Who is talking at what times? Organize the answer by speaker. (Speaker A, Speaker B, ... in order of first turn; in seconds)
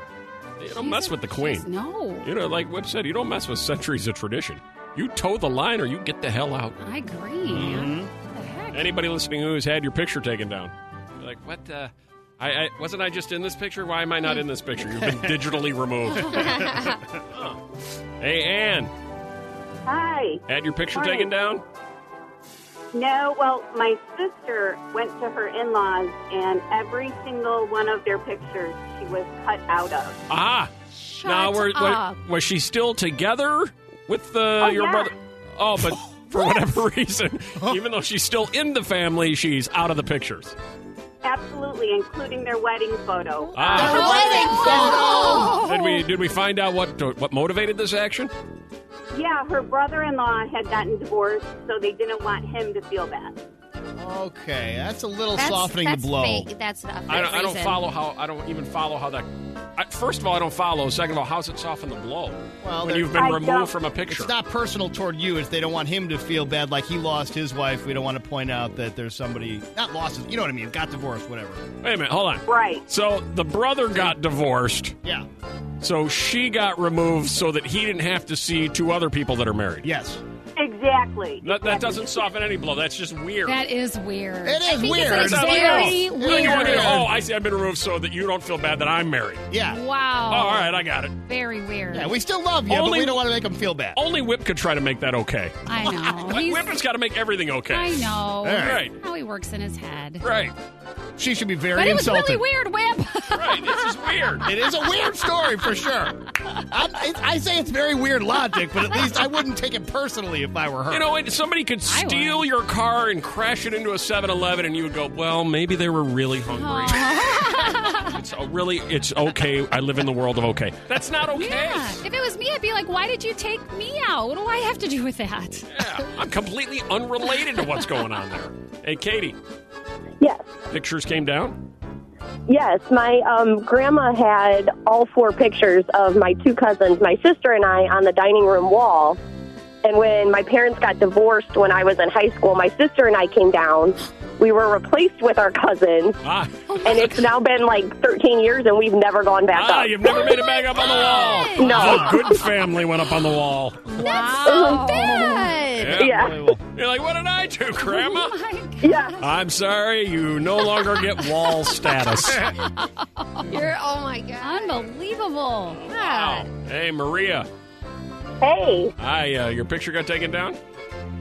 Speaker A: 0.6-1.7, 2.2-6.8, 7.5-7.8, 8.7-17.6, 18.2-18.9, 20.5-21.6, 30.3-30.7, 31.2-40.6, 43.5-48.3, 57.1-64.3, 71.8-75.0, 75.8-79.9, 81.4-83.6, 85.0-89.5, 90.3-91.1, 92.7-93.2, 94.0-99.0, 100.2-100.5, 103.3-104.5, 110.9-122.0, 125.7-129.4, 130.7-131.6, 146.2-146.6, 149.5-153.9, 155.7-158.4, 159.2-162.6, 165.7-167.5, 169.0-170.6
Speaker B: 0.7-2.3, 6.8-8.9, 44.0-45.6, 83.5-87.0, 89.6-90.7, 91.2-92.1, 95.7-96.7, 97.7-100.2, 101.7-104.0, 111.9-112.5, 116.5-118.2, 121.3-125.8, 146.7-147.1, 150.1-152.1, 153.9-155.5, 157.8-159.2, 162.4-163.7, 164.4-166.3
Speaker C: 7.5-8.1, 15.0-15.3, 43.8-45.2, 54.0-56.5, 62.6-63.4, 64.1-71.6, 79.8-80.2, 84.4-87.1, 89.5-89.8, 91.9-94.0, 98.4-98.8, 101.2-102.4, 104.4-106.1, 106.7-111.1, 156.1-156.6
Speaker D: 19.9-20.4, 20.9-21.3, 22.9-30.2, 34.6-35.0, 41.2-44.7, 49.1-53.4, 63.2-63.7, 72.5-72.8, 80.6-81.5
Speaker E: 30.9-32.2, 43.7-45.9, 55.4-57.8, 151.0-151.4, 153.9-156.1, 163.5-164.9, 166.0-166.4
Speaker F: 130.2-130.5, 132.5-139.2, 139.8-146.2, 146.8-150.1, 151.6-152.3, 154.5-155.0, 156.0-156.4, 158.8-159.1